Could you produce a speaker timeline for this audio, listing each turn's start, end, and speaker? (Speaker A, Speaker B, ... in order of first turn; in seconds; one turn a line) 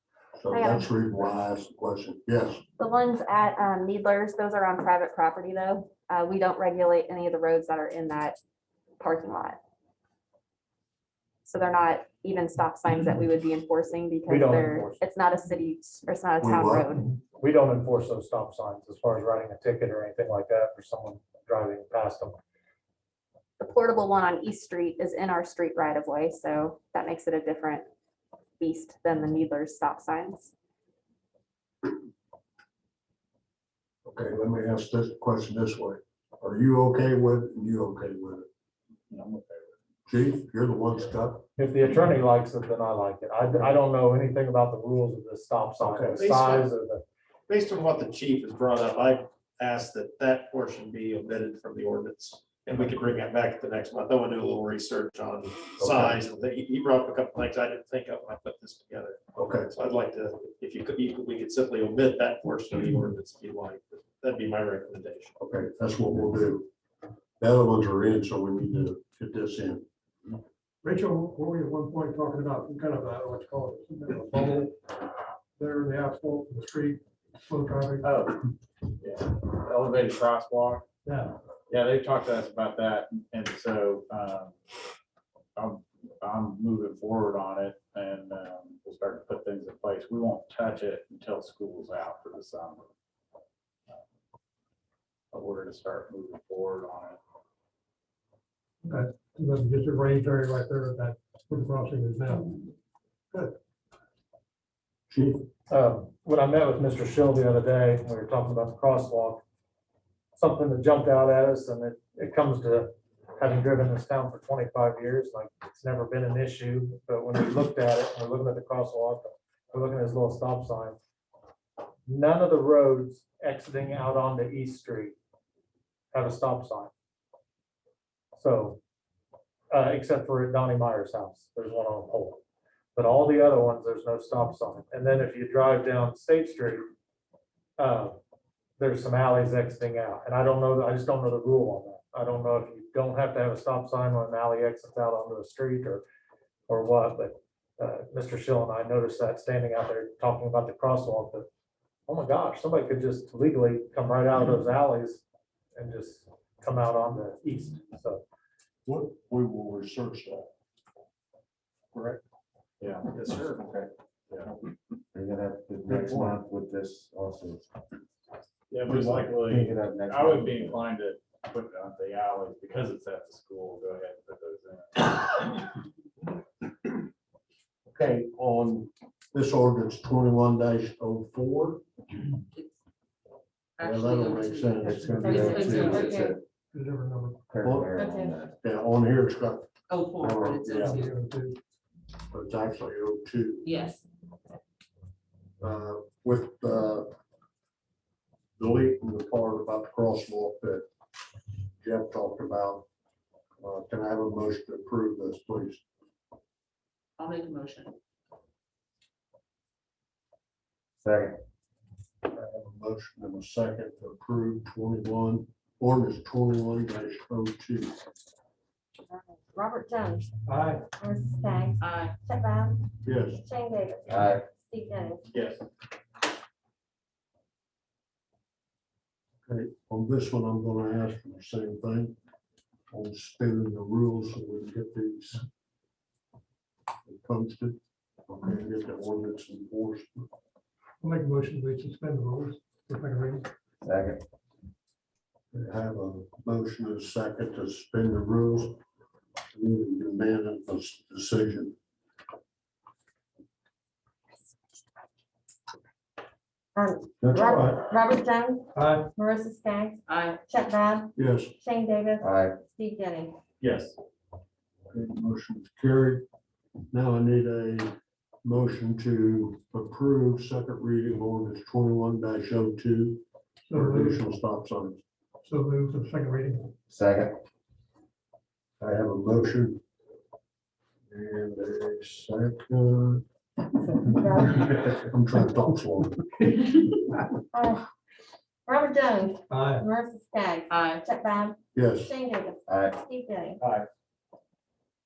Speaker A: 0.4-2.6
Speaker B: 0.5-0.9
Speaker B: 2.8-8.4
Speaker B: 9.0-9.6
Speaker B: 11.4-17.1
Speaker C: 14.3-15.0
Speaker A: 16.4-17.1
Speaker C: 17.4-22.4
Speaker B: 23.6-27.9
Speaker B: 28.6-30.5
Speaker A: 34.0-38.5
Speaker D: 39.1-39.8
Speaker A: 40.1-41.5
Speaker C: 41.6-47.0
Speaker E: 46.2-46.6
Speaker E: 47.5-65.3
Speaker A: 55.8-56.2
Speaker A: 59.4-59.7
Speaker A: 65.4-66.7
Speaker A: 67.4-69.8
Speaker F: 70.8-74.8
Speaker F: 75.6-78.1
Speaker D: 78.0-78.4
Speaker D: 79.0-80.8
Speaker F: 81.0-81.4
Speaker D: 81.7-84.5
Speaker D: 85.5-92.9
Speaker D: 95.3-97.2
Speaker F: 98.8-102.7
Speaker A: 105.1-105.5
Speaker C: 105.7-109.4
Speaker C: 110.3-121.0
Speaker C: 122.1-125.2
Speaker C: 126.1-126.9
Speaker C: 128.3-128.8
Speaker C: 129.7-132.4
Speaker C: 132.9-136.8
Speaker C: 137.8-138.2
Speaker C: 138.8-146.0
Speaker C: 146.7-151.5
Speaker C: 152.1-155.2
Speaker C: 155.8-158.2
Speaker A: 158.8-160.5
Speaker D: 162.8-163.6
Speaker E: 163.1-163.9
Speaker G: 165.1-167.7
Speaker A: 165.9-166.3
Speaker D: 168.7-175.5
Speaker G: 168.9-170.8
Speaker A: 177.9-181.8
Speaker H: 183.8-186.3
Speaker A: 183.8-186.2
Speaker G: 184.8-186.4
Speaker I: 185.3-186.3
Speaker F: 186.7-187.4
Speaker G: 187.5-188.5
Speaker A: 187.6-188.0
Speaker I: 188.0-188.3
Speaker A: 188.6-190.8
Speaker H: 189.9-191.1
Speaker F: 190.7-191.6
Speaker A: 192.3-193.7
Speaker H: 193.6-194.0
Speaker A: 195.6-197.1
Speaker A: 198.6-200.8
Speaker A: 201.8-202.8
Speaker A: 203.6-205.8
Speaker H: 207.2-207.9
Speaker G: 211.0-211.4
Speaker A: 212.3-217.9
Speaker I: 219.1-220.3
Speaker F: 220.4-220.8
Speaker I: 221.0-225.2
Speaker H: 221.8-222.1
Speaker A: 223.0-223.4
Speaker G: 224.1-224.4
Speaker E: 225.3-225.6
Speaker A: 229.5-232.1
Speaker A: 232.9-235.4
Speaker A: 237.1-240.3
Speaker F: 241.0-243.5
Speaker G: 243.8-244.2
Speaker A: 245.5-248.8
Speaker A: 249.5-251.7
Speaker I: 256.8-263.3
Speaker A: 257.2-257.9
Speaker F: 258.7-259.1
Speaker H: 260.1-260.4
Speaker A: 261.1-261.5
Speaker G: 262.2-262.6
Speaker E: 263.6-263.9
Speaker A: 264.9-266.2
Speaker A: 266.9-267.9
Speaker A: 268.4-275.0
Speaker F: 273.7-274.2
Speaker F: 275.4-276.7
Speaker G: 276.9-277.4
Speaker A: 278.8-279.8
Speaker A: 281.1-283.2
Speaker I: 284.1-284.5
Speaker A: 284.4-286.4
Speaker I: 287.5-287.9
Speaker I: 288.7-293.6
Speaker F: 289.5-289.8
Speaker H: 290.7-291.0
Speaker A: 291.7-292.1
Speaker G: 292.7-293.0